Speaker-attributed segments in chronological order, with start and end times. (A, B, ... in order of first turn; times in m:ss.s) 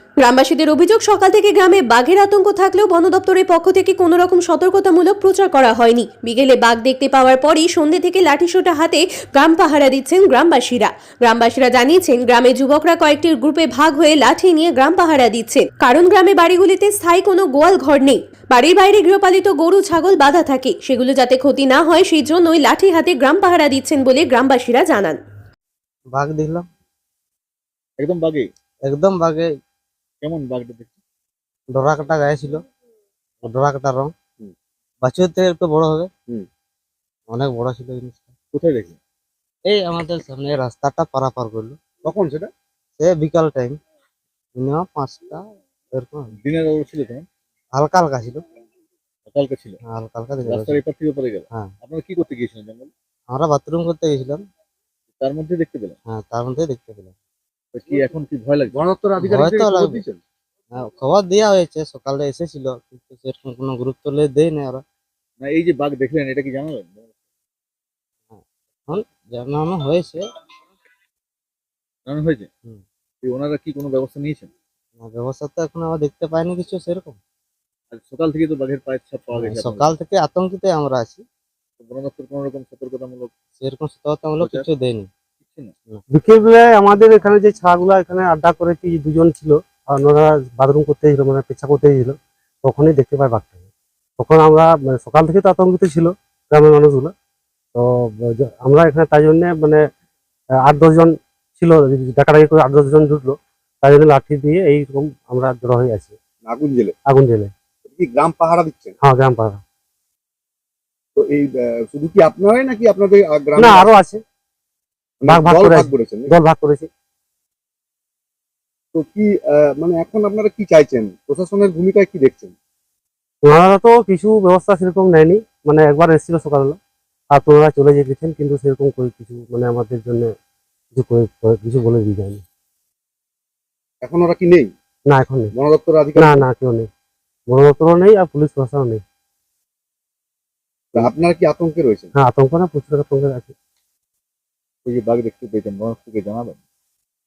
0:00.2-0:25.2 A
0:26.1-0:26.7 B
0:28.0-0:28.5 C
0:28.9-0:29.5 B
0:30.2-0:31.0 C
0:31.7-0:32.6 B
0:33.4-0:34.1 B
0:35.0-0:36.1 B
0:37.3-0:38.3 B
0:38.5-0:39.0 C
0:39.7-0:41.8 B
0:42.0-0:42.5 D
0:43.0-0:43.8 B
0:44.6-0:45.4 B
0:46.0-0:46.3 B
0:46.4-0:47.3 C
0:47.8-0:48.4 B
0:49.3-0:49.8 C
0:49.9-0:50.8 B
0:50.4-0:52.9 C
0:53.3-0:54.4 B
0:55.2-0:56.0 C
0:56.1-0:57.1 B
0:57.7-0:58.8 C
0:58.7-1:00.2 D
0:59.2-1:00.0 B
1:00.8-1:04.8 B
1:05.4-1:07.1 C
1:08.3-1:10.2 B
1:12.1-1:12.5 C
1:13.2-1:14.5 C
1:15.0-1:17.2 B
1:17.9-1:20.0 C
1:19.3-1:21.2 B
1:21.8-1:23.3 C
1:23.6-1:25.1 B
1:24.4-1:24.7 C
1:25.4-1:25.7 C
1:26.1-1:33.6 E
1:34.2-1:37.1 E
1:37.7-1:39.8 E
1:40.6-1:46.2 E
1:46.4-1:47.0 D
1:47.1-1:47.5 E
1:47.8-1:49.0 D
1:49.0-1:49.6 E
1:51.2-1:53.9 D
1:53.6-1:54.1 E
1:55.2-1:56.4 D
1:55.3-1:56.9 E
1:58.9-2:02.5 D
2:03.4-2:06.8 E
2:07.3-2:10.3 E
2:10.9-2:12.4 E
2:14.0-2:14.7 D
2:15.1-2:15.5 E
2:15.5-2:16.5 D
2:16.2-2:16.9 E
2:17.5-2:19.0 E
2:20.9-2:22.1 D
2:22.2-2:23.5 E
2:24.8-2:26.6 C